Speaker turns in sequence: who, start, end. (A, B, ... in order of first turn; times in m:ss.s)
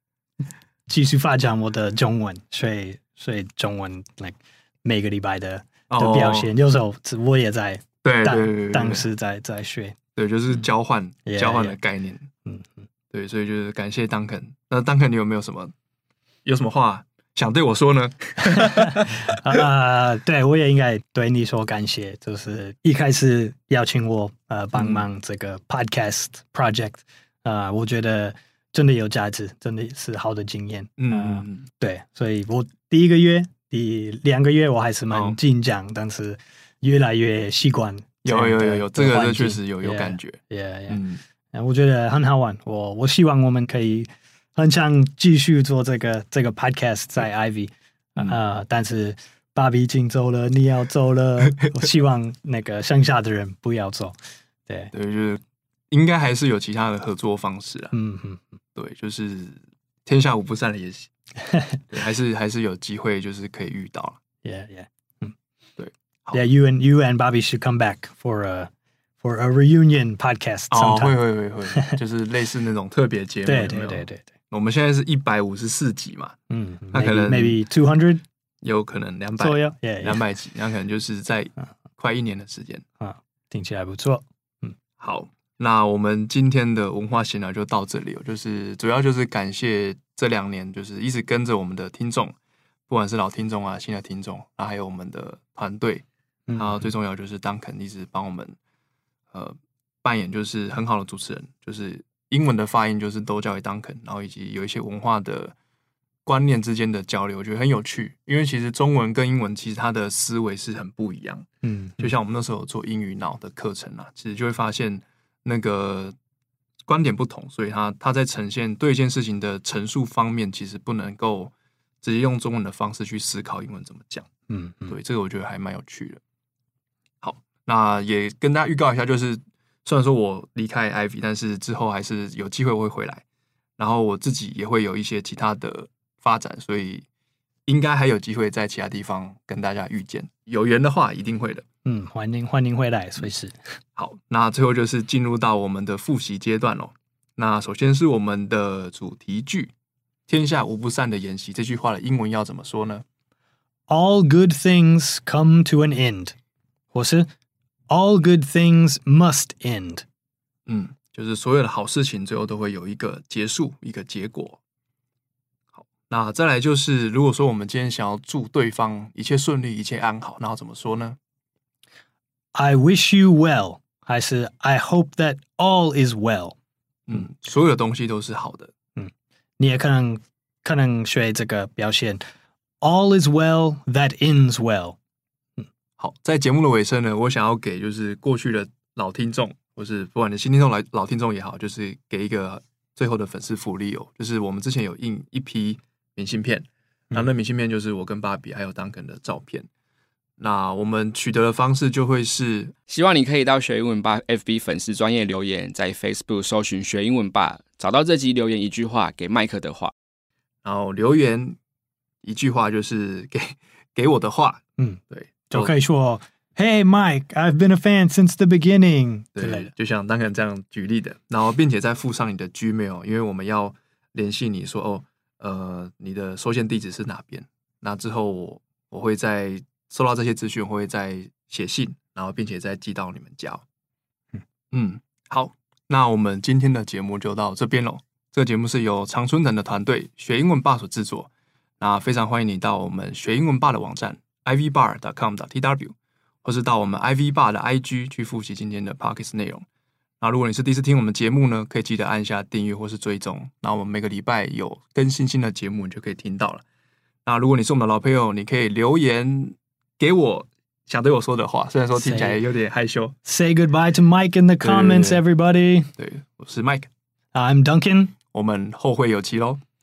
0:00.9-0:10.0 A
0:05.9-0:06.5 B
0:08.0-0:09.1 B
0:10.2-0:12.3 B
0:11.2-0:11.8 A
0:12.4-0:12.9 A
0:13.1-0:15.7 B
0:16.4-0:19.2 B
0:18.5-0:41.0 A
0:24.7-0:25.0 B
0:31.0-0:31.7 B
0:35.1-0:35.4 B
0:38.2-0:41.2 B
0:41.5-0:54.9 A
0:54.9-0:57.9 B
0:57.9-0:58.6 A
0:58.7-1:01.1 B
1:01.4-1:01.8 A
1:01.9-1:04.2 B
1:04.4-1:05.3 A
1:05.8-1:06.4 B
1:06.3-1:11.9 A
1:10.7-1:16.3 B
1:13.4-1:14.3 A
1:16.5-1:18.2 A
1:16.9-1:17.6 B
1:18.6-1:22.8 B
1:19.4-1:20.2 A
1:23.0-1:24.8 A
1:25.0-1:32.3 B
1:32.9-1:38.5 B
1:36.5-1:36.9 A
1:39.3-1:45.5 B
1:46.2-1:51.5 B
1:51.6-1:52.2 A
1:52.0-1:56.1 B
1:56.9-2:04.3 B
2:04.5-2:05.0 A
2:04.9-2:06.2 B
2:07.2-2:13.2 B
2:13.8-2:17.0 B
2:17.7-2:21.6 B
2:21.8-2:23.8 A
2:24.0-2:29.7 B
2:30.3-2:33.0 B
2:33.9-2:36.3 A
2:36.9-2:37.3 A
2:37.9-2:40.0 A
2:40.7-2:44.6 B
2:45.7-2:51.2 B
2:52.5-2:56.5 A
2:57.1-2:58.7 B
2:59.0-3:02.2 A
3:02.8-3:05.0 A
3:06.0-3:19.7 B
3:20.4-3:22.7 B
3:22.9-3:29.9 C
3:30.6-3:31.6 B
3:32.2-3:35.7 B
3:34.8-3:39.7 A
3:39.4-3:53.6 B
3:54.7-4:01.3 B
4:01.8-4:09.6 B
4:10.2-4:16.6 B
4:17.2-4:23.1 B
4:21.9-4:22.4 A
4:23.2-4:25.9 A
4:24.6-4:25.2 B
4:26.0-4:26.9 B
4:27.3-4:28.1 A
4:28.3-4:29.6 B